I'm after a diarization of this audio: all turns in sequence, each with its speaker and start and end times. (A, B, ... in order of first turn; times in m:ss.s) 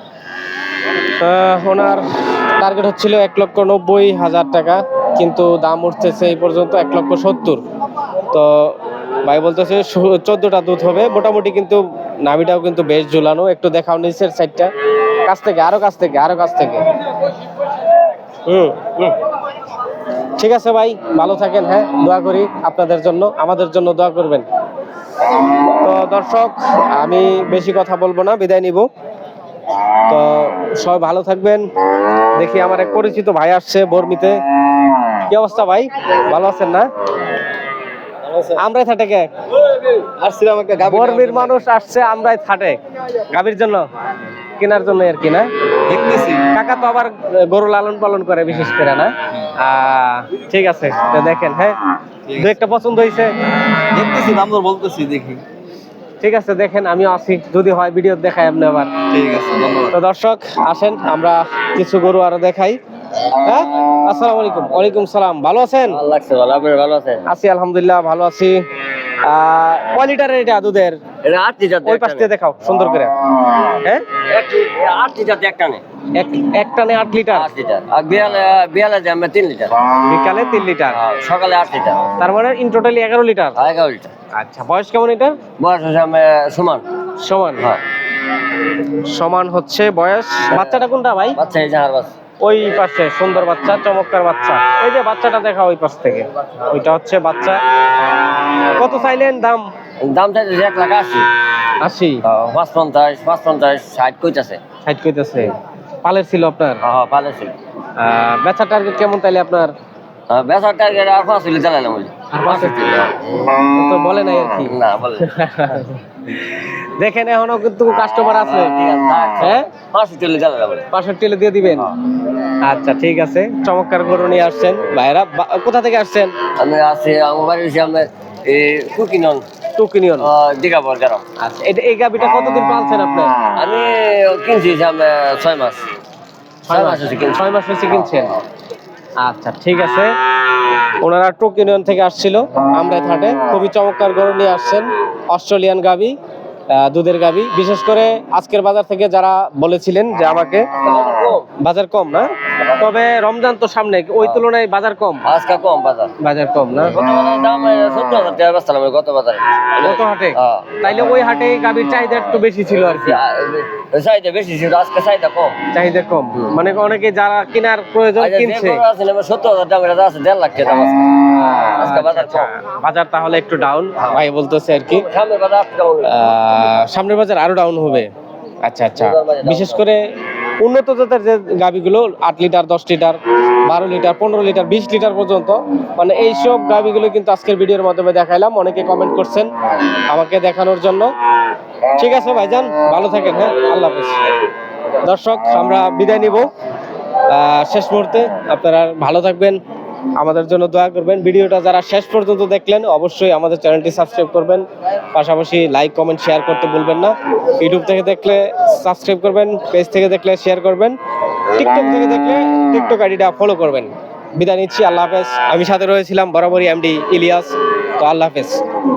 0:01.2-0:07.6 A
0:08.3-0:14.7 A
0:15.2-0:16.8 A
0:18.4-0:19.1 A
0:20.4-0:24.4 A
0:25.8-0:28.9 A
0:30.1-0:31.6 A
0:32.4-0:34.4 A
0:35.3-0:36.9 A
0:38.6-0:39.3 A
0:40.0-0:41.2 B
0:40.8-0:42.8 A
0:43.3-0:43.8 A
0:44.6-0:45.5 A
0:45.9-0:46.4 B
0:46.5-0:51.8 A
0:52.3-0:53.3 A
0:53.9-0:55.4 B
0:56.2-0:58.9 A
0:59.1-0:59.9 B
0:59.9-1:02.8 A
1:03.4-1:06.0 A
1:05.9-1:07.2 C
1:07.3-1:08.6 A
1:09.2-1:11.0 A
1:11.2-1:12.3 C
1:11.8-1:13.1 A
1:14.3-1:15.8 C
1:16.1-1:17.5 A
1:17.3-1:19.8 C
1:20.1-1:21.0 A
1:20.9-1:22.0 C
1:22.2-1:23.6 A
1:23.6-1:24.1 C
1:24.3-1:25.4 A
1:25.6-1:26.8 C
1:27.2-1:27.6 A
1:28.9-1:31.4 A
1:30.5-1:30.8 C
1:31.3-1:32.1 C
1:32.4-1:37.6 A
1:38.8-1:39.7 A
1:40.0-1:41.3 C
1:41.8-1:42.2 A
1:42.3-1:44.6 C
1:44.8-1:46.8 A
1:46.8-1:47.5 C
1:48.0-1:49.7 A
1:50.3-1:53.3 C
1:52.3-1:52.8 A
1:53.6-1:58.7 A
1:54.7-1:55.4 C
1:58.4-2:00.8 C
1:59.4-1:59.7 A
2:00.9-2:01.9 A
2:02.6-2:06.3 A
2:06.6-2:09.4 C
2:09.8-2:10.3 A
2:10.2-2:11.2 C
2:11.4-2:13.3 A
2:13.5-2:15.8 C
2:16.7-2:18.4 A
2:16.7-2:18.1 C
2:19.2-2:20.1 A
2:21.0-2:26.1 A
2:26.7-2:30.7 A
2:30.8-2:31.4 C
2:31.6-2:35.2 A
2:35.2-2:36.1 C
2:36.2-2:36.9 A
2:36.8-2:40.9 C
2:39.8-2:43.2 A
2:42.6-2:45.6 C
2:45.7-2:48.8 A
2:48.2-2:52.5 C
2:51.4-2:55.0 A
2:54.9-2:56.1 C
2:56.0-2:58.1 A
2:58.6-3:00.0 A
2:59.0-2:59.8 C
3:00.6-3:09.5 A
3:10.1-3:11.1 A
3:12.0-3:14.2 A
3:15.0-3:16.5 A
3:17.3-3:19.6 A
3:20.2-3:31.0 A
3:31.6-3:38.6 A